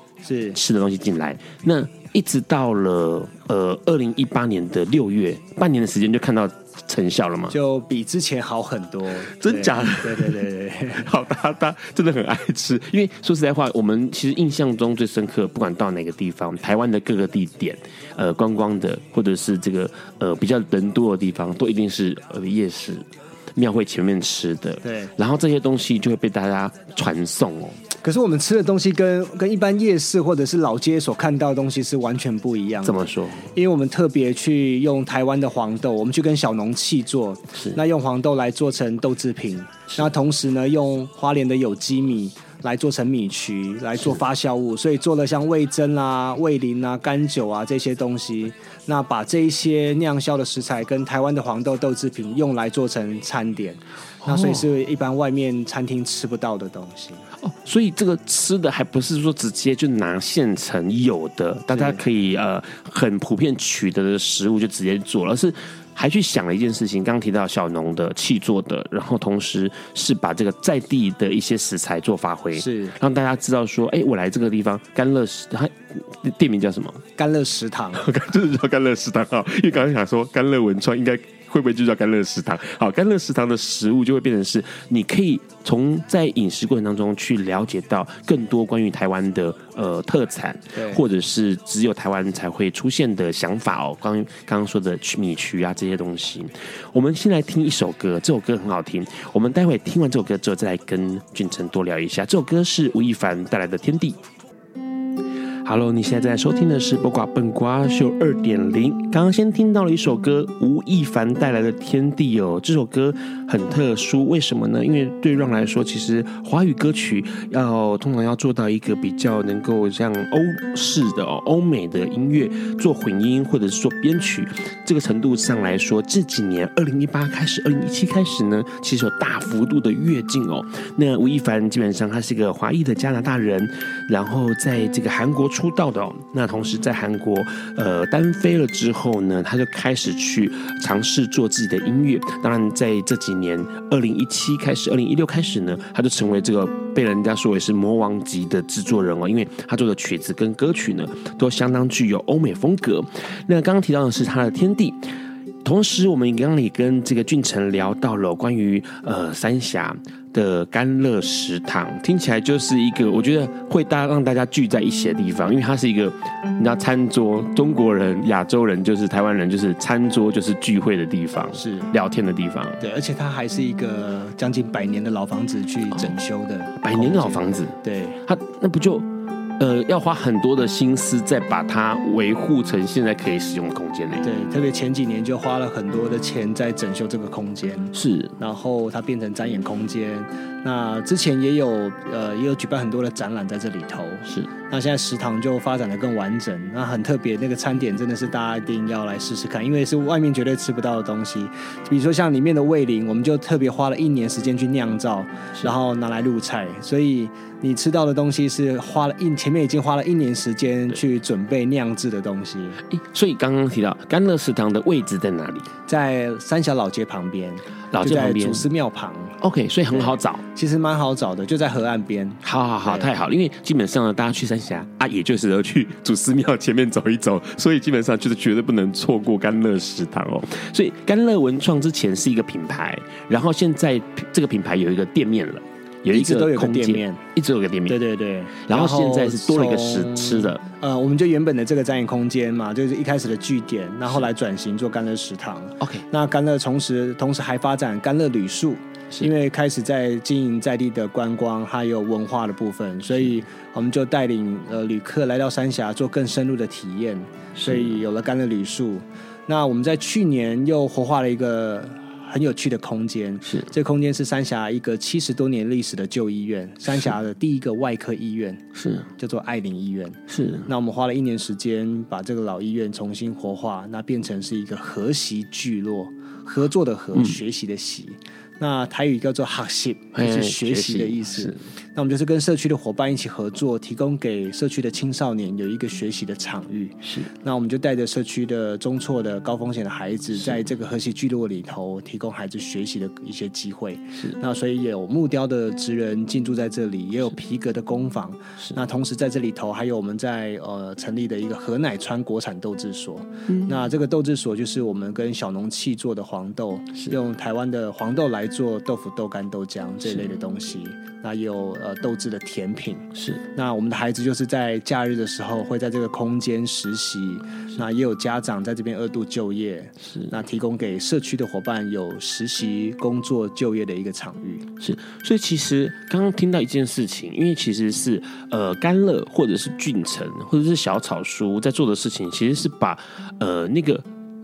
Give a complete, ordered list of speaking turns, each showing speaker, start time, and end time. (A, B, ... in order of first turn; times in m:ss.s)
0:00.2-0:00.6 A
0:00.5-0:07.6 B
0:07.5-0:11.1 A
0:09.4-0:27.8 B
0:24.8-0:25.1 A
0:28.0-0:33.0 A
0:32.8-0:33.5 B
0:33.5-0:57.3 A
0:54.2-0:54.7 B
0:57.4-1:17.0 B
1:01.7-1:02.0 A
1:12.5-1:13.0 A
1:17.2-1:18.1 A
1:18.0-1:44.2 B
1:30.8-1:31.0 A
1:45.6-2:35.0 B
2:35.6-2:52.8 B
2:51.6-2:51.9 A
2:52.8-2:58.2 A
2:56.8-3:04.3 B
3:04.2-3:32.8 A
3:07.9-3:08.4 B
3:32.9-3:35.7 B
3:35.9-3:43.1 A
3:37.9-3:38.7 B
3:39.4-3:40.4 B
3:42.4-3:58.0 B
3:56.1-3:57.2 A
3:57.9-4:28.6 A
3:58.6-4:00.6 B
4:05.8-4:06.0 B
4:17.6-4:17.9 B
4:28.8-4:29.1 B
4:29.2-5:24.7 A
4:30.3-4:30.7 B
4:40.1-4:41.6 B
4:47.0-4:47.3 B
5:03.5-5:03.8 B
5:13.2-5:13.4 B
5:24.8-5:34.1 B